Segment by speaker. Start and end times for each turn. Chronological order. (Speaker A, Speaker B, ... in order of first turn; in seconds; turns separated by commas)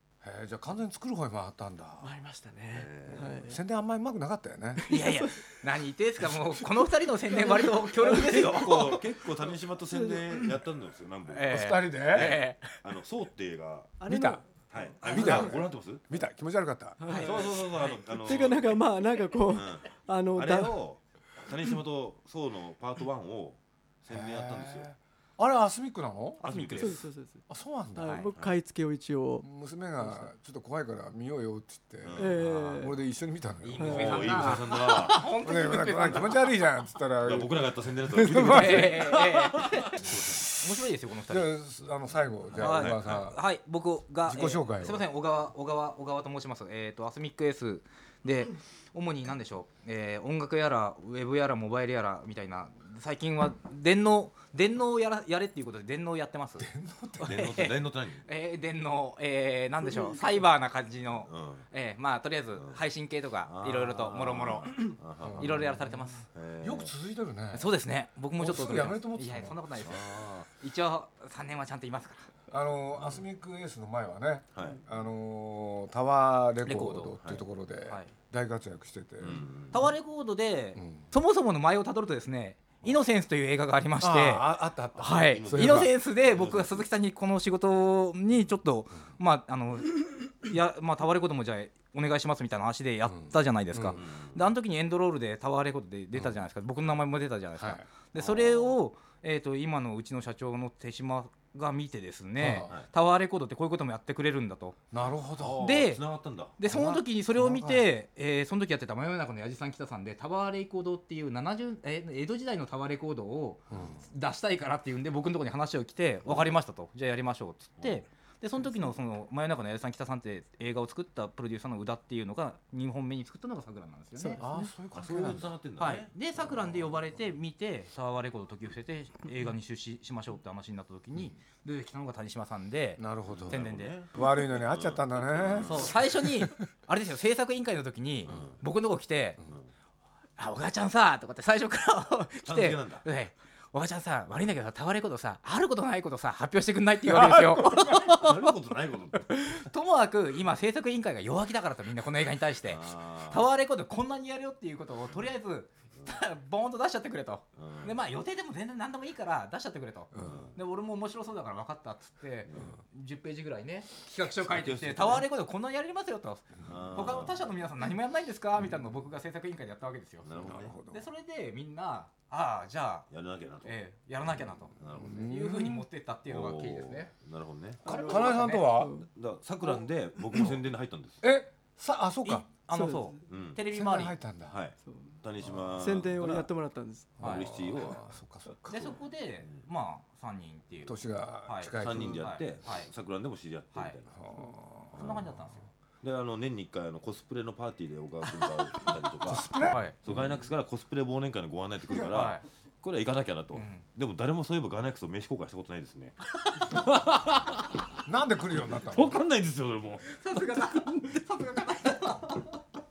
Speaker A: 0.2-2.1, Speaker B: 2.0-3.6, Speaker C: 2.7-3.4, Speaker A: 3.4-4.8, Speaker B: 4.8-5.3, Speaker D: 4.9-8.9, Speaker B: 7.3-9.1, Speaker C: 8.4-14.0, Speaker B: 9.9-10.5, Speaker D: 11.3-12.8, Speaker A: 11.5-12.4, Speaker B: 14.0-15.5, Speaker A: 14.1-14.4, Speaker C: 14.7-16.1, Speaker A: 15.1-17.0, Speaker B: 17.0-20.8, Speaker D: 17.1-17.9, Speaker C: 17.1-18.8, Speaker C: 19.5-24.9, Speaker A: 24.1-26.9, Speaker C: 26.4-27.1, Speaker D: 26.5-26.8, Speaker B: 26.8-29.5, Speaker A: 27.5-28.3, Speaker A: 29.4-39.0, Speaker C: 32.0-32.6, Speaker B: 32.2-33.0, Speaker D: 32.4-32.8, Speaker D: 33.6-36.5, Speaker C: 33.8-35.2, Speaker C: 37.2-40.5, Speaker D: 38.5-41.5, Speaker A: 40.2-40.6, Speaker A: 41.3-43.4, Speaker C: 42.5-43.3, Speaker D: 42.6-66.2, Speaker A: 44.2-45.0, Speaker A: 56.6-57.4, Speaker C: 57.2-58.2, Speaker C: 61.3-61.7, Speaker C: 63.5-66.9, Speaker A: 65.2-65.7, Speaker A: 66.6-67.7, Speaker D: 67.5-72.3, Speaker A: 68.4-69.6, Speaker C: 69.8-70.5, Speaker A: 72.5-79.4, Speaker C: 73.0-73.2, Speaker C: 74.5-74.8, Speaker D: 76.7-77.1, Speaker C: 77.2-77.5, Speaker C: 79.2-79.8, Speaker D: 79.7-84.4, Speaker A: 80.8-81.0, Speaker A: 84.0-85.9, Speaker C: 85.0-86.9, Speaker D: 85.0-104.8, Speaker A: 93.1-94.0, Speaker C: 93.9-94.5, Speaker A: 97.6-97.9, Speaker C: 98.2-98.8, Speaker A: 102.4-102.7, Speaker A: 104.9-105.7, Speaker C: 105.4-106.6, Speaker D: 105.6-106.0, Speaker D: 106.6-124.4, Speaker A: 106.7-107.9, Speaker A: 113.7-114.0, Speaker C: 116.3-116.5, Speaker C: 117.8-118.1, Speaker B: 124.2-124.7, Speaker A: 124.4-125.5, Speaker C: 125.0-126.8, Speaker D: 125.8-133.9, Speaker A: 133.0-136.6, Speaker C: 133.3-135.9, Speaker D: 135.7-139.4, Speaker D: 140.4-148.2, Speaker C: 142.4-143.1, Speaker C: 148.0-149.5, Speaker D: 149.6-170.3, Speaker C: 152.7-153.5, Speaker C: 157.6-158.0, Speaker A: 160.1-160.4, Speaker C: 160.2-160.5, Speaker C: 164.3-165.3, Speaker C: 166.7-167.4, Speaker C: 170.2-170.8, Speaker A: 170.4-171.1, Speaker D: 170.9-173.1, Speaker C: 173.1-173.8, Speaker D: 173.6-177.1, Speaker C: 174.8-175.4, Speaker A: 174.9-175.7, Speaker C: 176.3-177.8, Speaker B: 177.8-179.1, Speaker A: 177.9-178.9, Speaker D: 177.9-178.7, Speaker C: 179.1-181.2, Speaker A: 181.2-182.5, Speaker D: 182.2-184.2, Speaker B: 182.7-183.2, Speaker C: 183.3-183.6, Speaker A: 183.7-184.6, Speaker C: 184.5-186.5, Speaker B: 184.9-187.2, Speaker C: 187.2-188.0, Speaker D: 187.2-187.5, Speaker A: 187.3-189.0, Speaker D: 188.7-192.9, Speaker A: 190.8-192.3, Speaker C: 191.8-194.1, Speaker A: 194.1-195.3, Speaker C: 194.9-195.3, Speaker D: 194.9-195.7, Speaker C: 196.0-207.9, Speaker A: 199.2-199.8, Speaker D: 199.7-200.0, Speaker D: 202.1-202.4, Speaker D: 203.6-203.8, Speaker A: 208.1-209.2, Speaker C: 208.7-210.1, Speaker D: 210.1-212.6